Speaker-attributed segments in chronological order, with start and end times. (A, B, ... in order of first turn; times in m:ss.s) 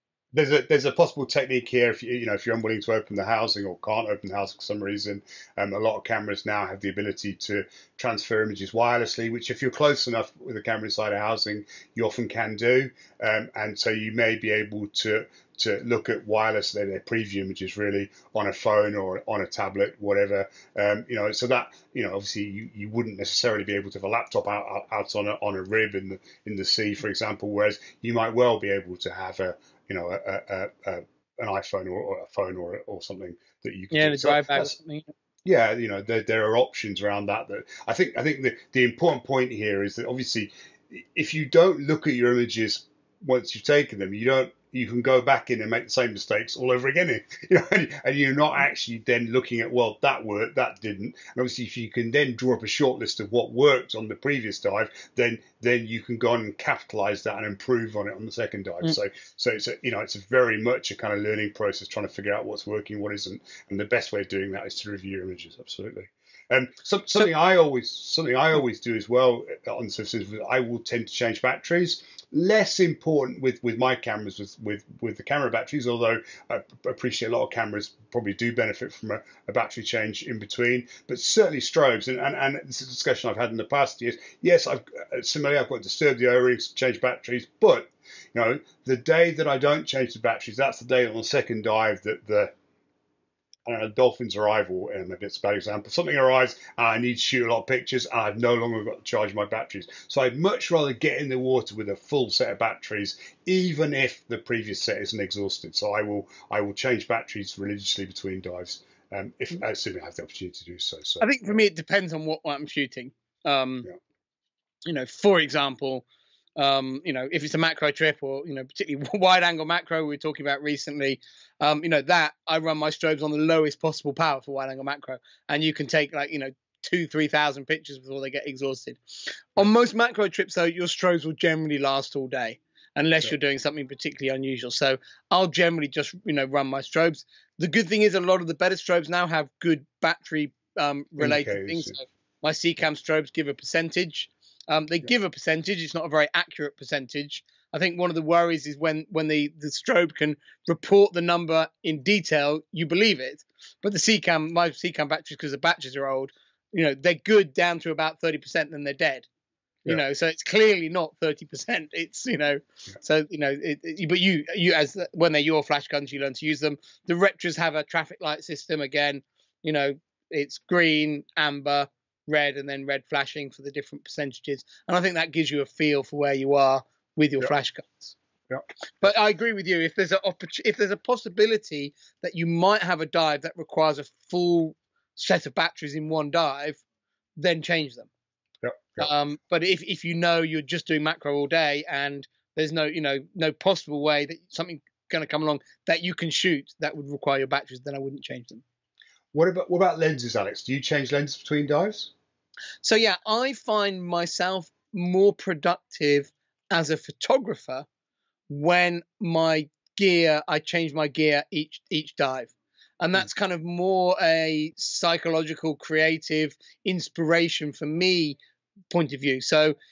0:00.3-0:34.8 A
0:33.9-0:35.1 B
0:35.4-1:32.5 A
1:33.7-1:51.6 A
1:51.2-1:53.9 B
1:54.9-1:56.0 B
1:56.6-2:09.0 B
2:09.6-2:39.3 B
2:21.2-2:22.0 A
2:39.9-2:58.2 B
2:58.5-2:59.1 A
2:59.0-3:06.8 B
3:07.4-3:08.1 B
3:08.6-3:09.1 A
3:09.0-3:18.6 B
3:19.3-3:22.1 A
3:22.8-3:27.9 B
3:28.5-3:38.4 B
3:38.9-3:39.8 B